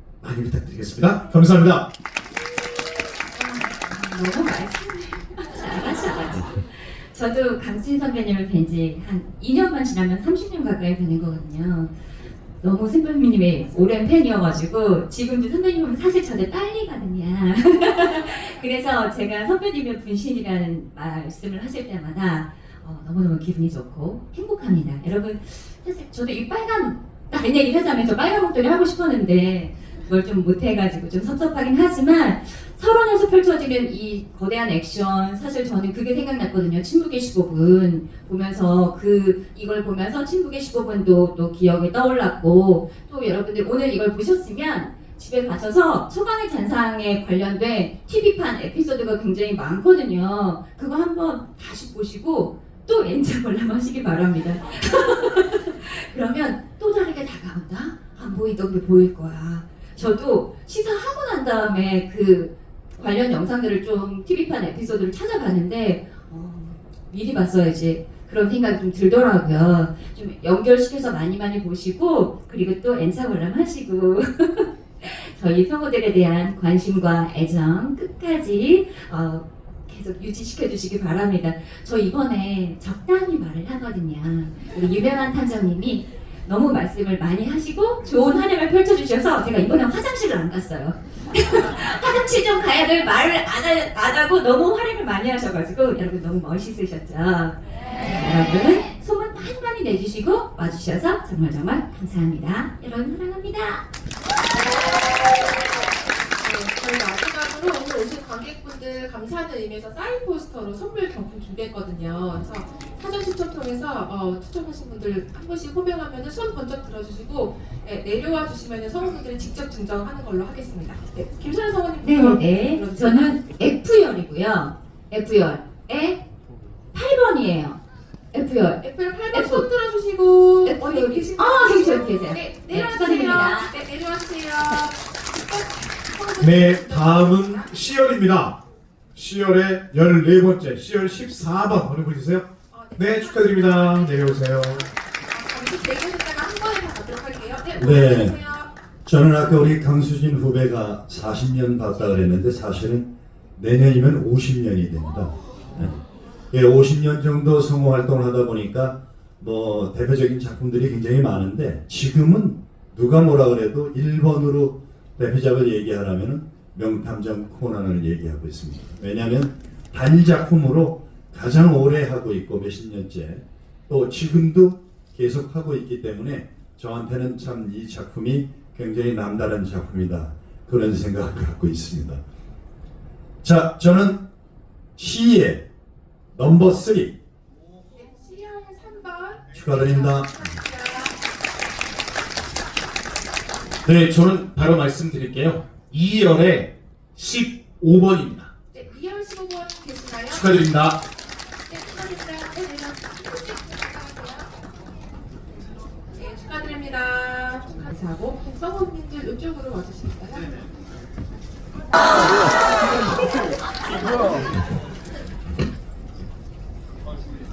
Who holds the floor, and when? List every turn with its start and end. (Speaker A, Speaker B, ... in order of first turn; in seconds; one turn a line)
Speaker A: 0.2-1.9
Speaker B: 3.3-11.9
Speaker B: 12.6-103.8
Speaker C: 106.4-123.4
Speaker B: 122.0-126.2
Speaker B: 126.9-127.8
Speaker B: 128.3-129.7
Speaker C: 128.8-137.9
Speaker B: 130.6-133.7
Speaker A: 136.4-138.6
Speaker A: 139.2-144.9
Speaker C: 142.7-148.7
Speaker D: 147.8-148.4
Speaker D: 149.1-156.0
Speaker D: 156.5-182.2
Speaker D: 183.4-184.2
Speaker D: 185.0-185.6
Speaker D: 186.3-187.2
Speaker C: 187.9-191.2
Speaker D: 189.5-190.4
Speaker E: 193.8-198.5
Speaker C: 198.7-200.6
Speaker E: 200.3-201.0
Speaker C: 201.7-204.5
Speaker C: 206.2-210.6